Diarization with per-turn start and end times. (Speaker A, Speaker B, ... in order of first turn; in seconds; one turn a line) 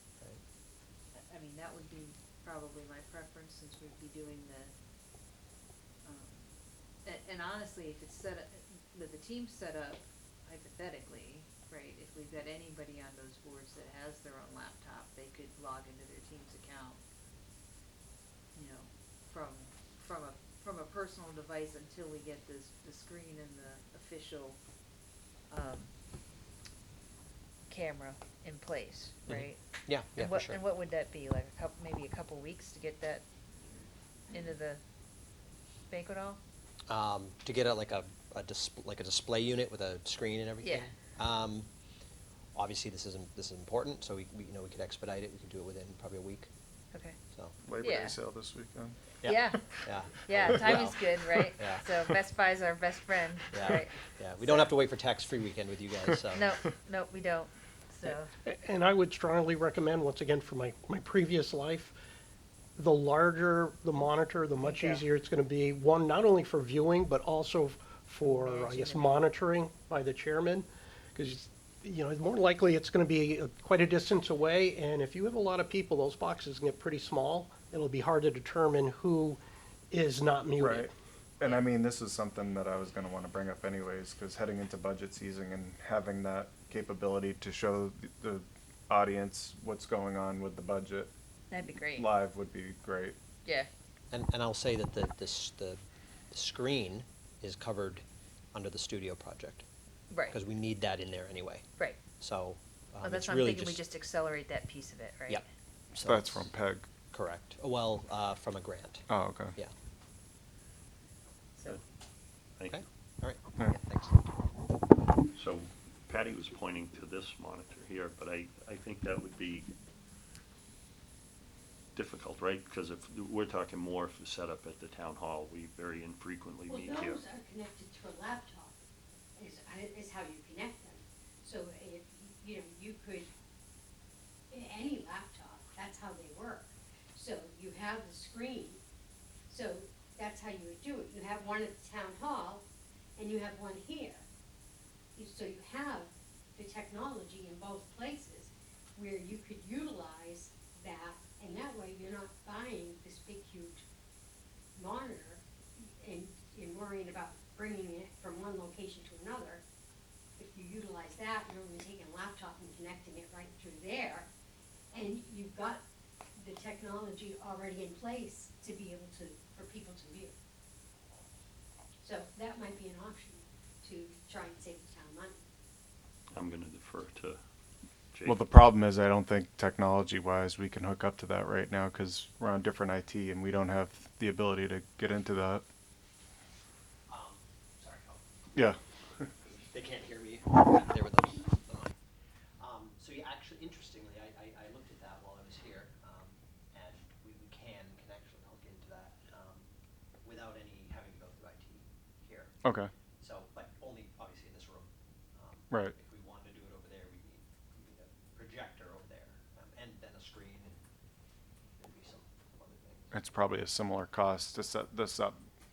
Speaker A: 1.1-4.7
Speaker A: 6.0-17.0
Speaker A: 18.5-24.6
Speaker A: 25.5-25.9
Speaker A: 27.7-33.2
Speaker B: 29.3-30.6
Speaker A: 34.3-34.8
Speaker A: 35.9-36.4
Speaker B: 36.9-41.7
Speaker A: 40.6-40.9
Speaker B: 42.5-46.5
Speaker B: 47.3-47.6
Speaker C: 47.6-49.0
Speaker A: 47.8-48.1
Speaker B: 49.2-51.9
Speaker A: 49.2-54.7
Speaker B: 53.5-56.5
Speaker A: 56.3-58.3
Speaker D: 58.0-61.9
Speaker D: 62.8-80.9
Speaker A: 64.6-65.0
Speaker A: 68.2-69.2
Speaker C: 80.6-91.1
Speaker A: 91.5-92.1
Speaker C: 91.9-93.2
Speaker A: 93.4-93.7
Speaker B: 94.1-99.7
Speaker A: 100.1-100.4
Speaker B: 100.3-101.7
Speaker B: 102.2-103.8
Speaker A: 103.0-105.4
Speaker B: 105.3-106.5
Speaker C: 106.0-106.9
Speaker B: 107.1-109.7
Speaker C: 109.1-109.5
Speaker B: 112.6-114.4
Speaker E: 115.3-119.7
Speaker E: 121.9-127.2
Speaker F: 126.7-128.8
Speaker F: 129.3-133.3
Speaker F: 134.5-138.8
Speaker F: 139.5-142.6
Speaker F: 143.2-144.2
Speaker F: 145.2-153.8
Speaker F: 154.8-159.6
Speaker F: 160.4-164.3
Speaker F: 164.9-165.8
Speaker F: 166.3-170.3
Speaker F: 172.0-175.3
Speaker E: 176.3-177.4
Speaker E: 178.1-178.6
Speaker C: 178.2-185.6
Speaker B: 187.1-188.5
Speaker B: 189.7-191.9
Speaker B: 192.6-199.7
Speaker B: 200.2-202.6
Speaker C: 202.6-202.9
Speaker B: 203.2-210.8
Speaker C: 205.7-205.9
Speaker B: 211.8-213.2
Speaker C: 213.1-215.4